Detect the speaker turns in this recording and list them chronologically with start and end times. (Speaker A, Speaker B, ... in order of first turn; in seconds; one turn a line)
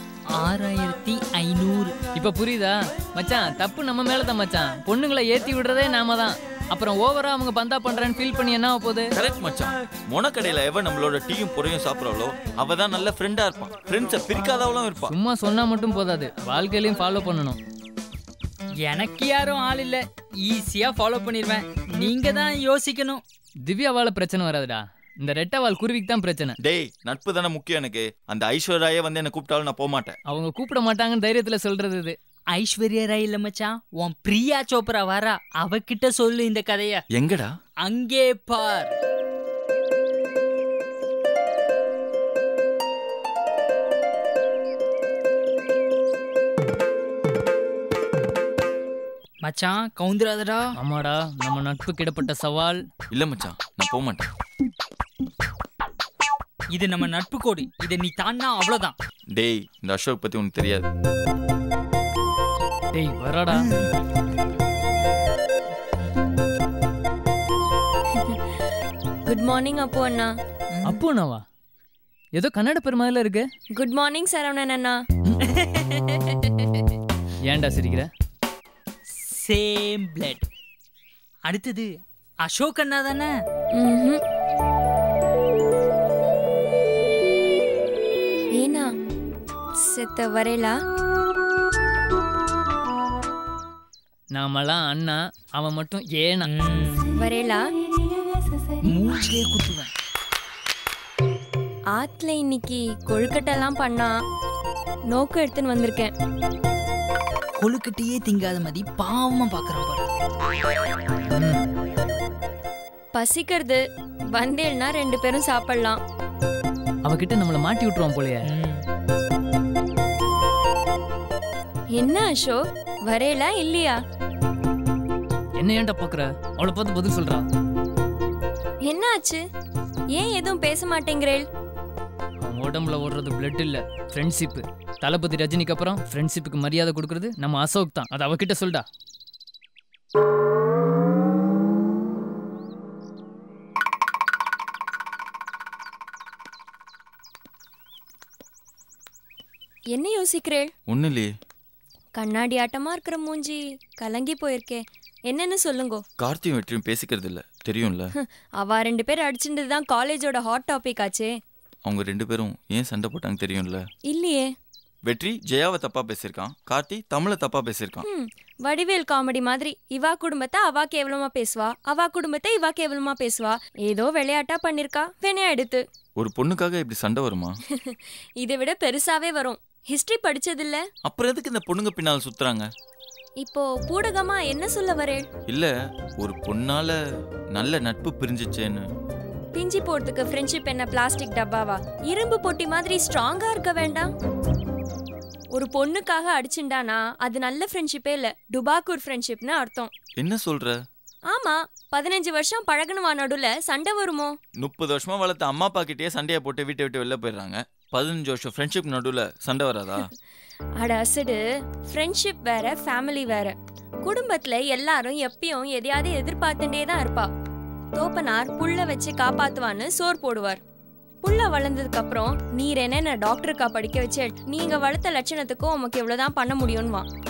Speaker A: 0.3-1.9
Speaker B: 2.1-9.1
Speaker C: 9.1-15.1
Speaker B: 15.1-17.6
Speaker A: 18.8-23.2
Speaker B: 23.6-26.6
Speaker C: 26.6-30.2
Speaker B: 30.3-32.1
Speaker A: 32.5-37.0
Speaker C: 37.1-37.5
Speaker A: 37.8-38.9
Speaker A: 49.4-50.6
Speaker B: 50.8-52.8
Speaker C: 53.1-54.3
Speaker A: 56.7-58.9
Speaker C: 59.3-60.9
Speaker B: 62.9-63.7
Speaker A: 63.5-63.9
Speaker D: 68.1-68.5
Speaker D: 69.2-70.3
Speaker A: 70.7-71.0
Speaker B: 70.8-71.4
Speaker B: 72.3-73.4
Speaker D: 73.7-75.0
Speaker A: 75.4-76.2
Speaker B: 77.5-78.1
Speaker A: 79.1-80.5
Speaker A: 81.5-81.9
Speaker A: 82.4-83.3
Speaker D: 83.7-84.2
Speaker D: 88.5-88.9
Speaker D: 89.8-90.8
Speaker B: 94.3-96.5
Speaker A: 96.5-97.1
Speaker D: 97.1-97.6
Speaker A: 98.9-99.9
Speaker D: 102.0-104.1
Speaker D: 105.1-106.1
Speaker A: 107.5-110.1
Speaker B: 111.3-111.6
Speaker D: 113.1-113.8
Speaker D: 114.3-116.0
Speaker B: 117.0-118.4
Speaker A: 118.5-118.8
Speaker D: 121.9-124.0
Speaker B: 125.6-127.5
Speaker D: 128.8-129.4
Speaker D: 130.1-131.4
Speaker B: 132.4-138.8
Speaker D: 149.9-150.7
Speaker C: 150.9-151.3
Speaker D: 152.2-156.0
Speaker C: 156.2-158.1
Speaker D: 158.2-161.3
Speaker C: 161.8-163.8
Speaker D: 164.1-164.5
Speaker C: 165.1-168.0
Speaker D: 168.0-175.8
Speaker C: 176.2-177.6
Speaker D: 177.7-180.8
Speaker C: 181.0-182.7
Speaker D: 183.4-185.2
Speaker C: 185.5-187.0
Speaker C: 187.5-188.8
Speaker D: 189.5-194.1
Speaker D: 195.5-199.9
Speaker C: 200.2-200.8
Speaker D: 201.3-204.3
Speaker C: 204.6-210.1
Speaker D: 210.8-217.3
Speaker D: 217.9-220.6
Speaker D: 221.2-227.1